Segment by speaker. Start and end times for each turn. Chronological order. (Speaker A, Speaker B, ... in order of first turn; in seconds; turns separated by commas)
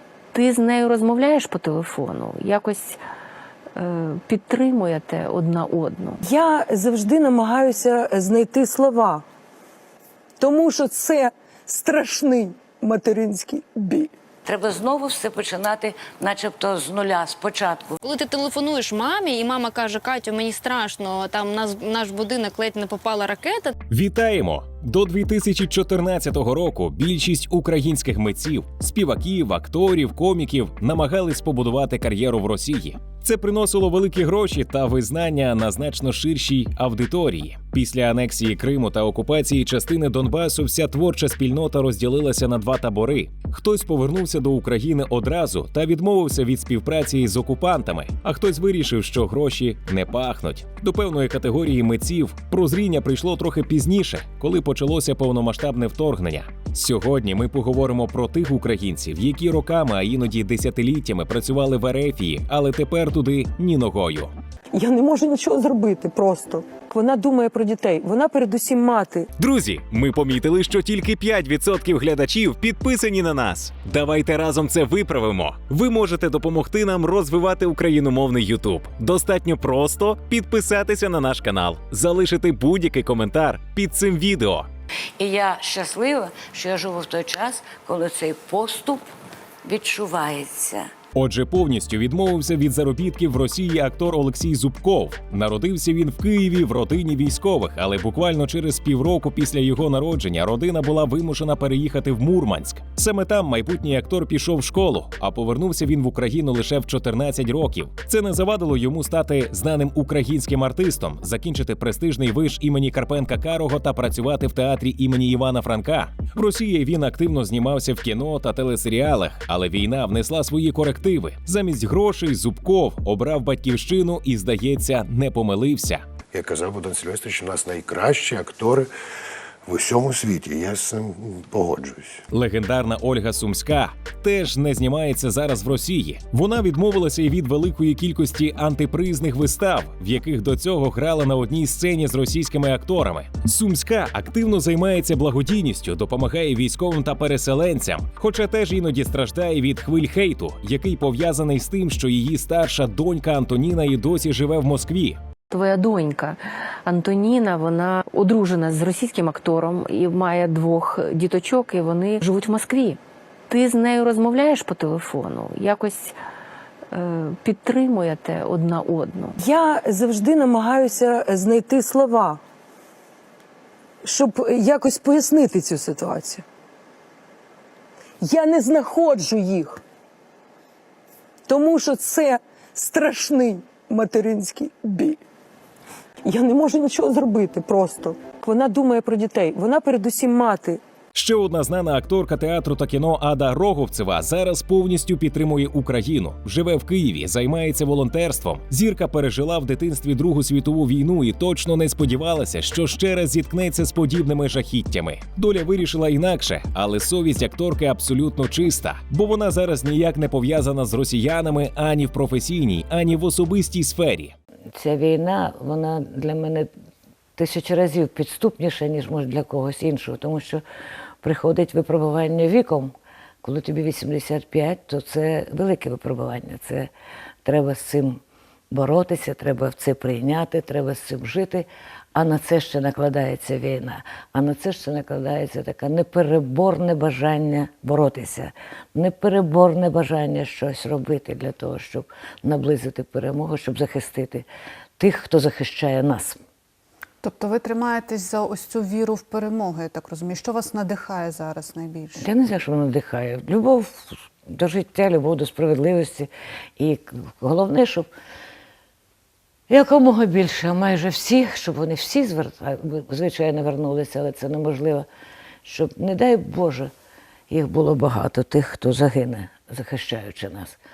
Speaker A: 0.3-3.0, Speaker A: 3.8-6.2, Speaker B: 6.2-9.2, Speaker B: 10.4-14.1, Speaker C: 14.4-17.9, Speaker D: 18.0-23.7, Speaker E: 23.9-64.3, Speaker B: 64.7-69.3, Speaker E: 69.4-84.7, Speaker C: 85.2-89.0, Speaker C: 89.6-90.8, Speaker E: 91.1-126.0, Speaker F: 126.3-128.9, Speaker F: 129.7-132.2, Speaker E: 132.3-155.2, Speaker A: 155.5-166.1, Speaker A: 166.9-169.4, Speaker B: 169.4-172.4, Speaker B: 174.0-176.4, Speaker B: 178.2-179.8, Speaker B: 181.5-185.2, Speaker B: 186.2-190.8, Speaker E: 191.1-214.3, Speaker C: 214.7-216.7, Speaker C: 217.4-220.6, Speaker C: 221.2-226.9, Speaker C: 227.4-228.2, Speaker C: 228.7-244.5, Speaker C: 245.0-246.4, Speaker G: 247.2-252.2, Speaker C: 252.2-258.1, Speaker C: 259.7-265.1, Speaker C: 265.6-266.9, Speaker C: 267.5-270.8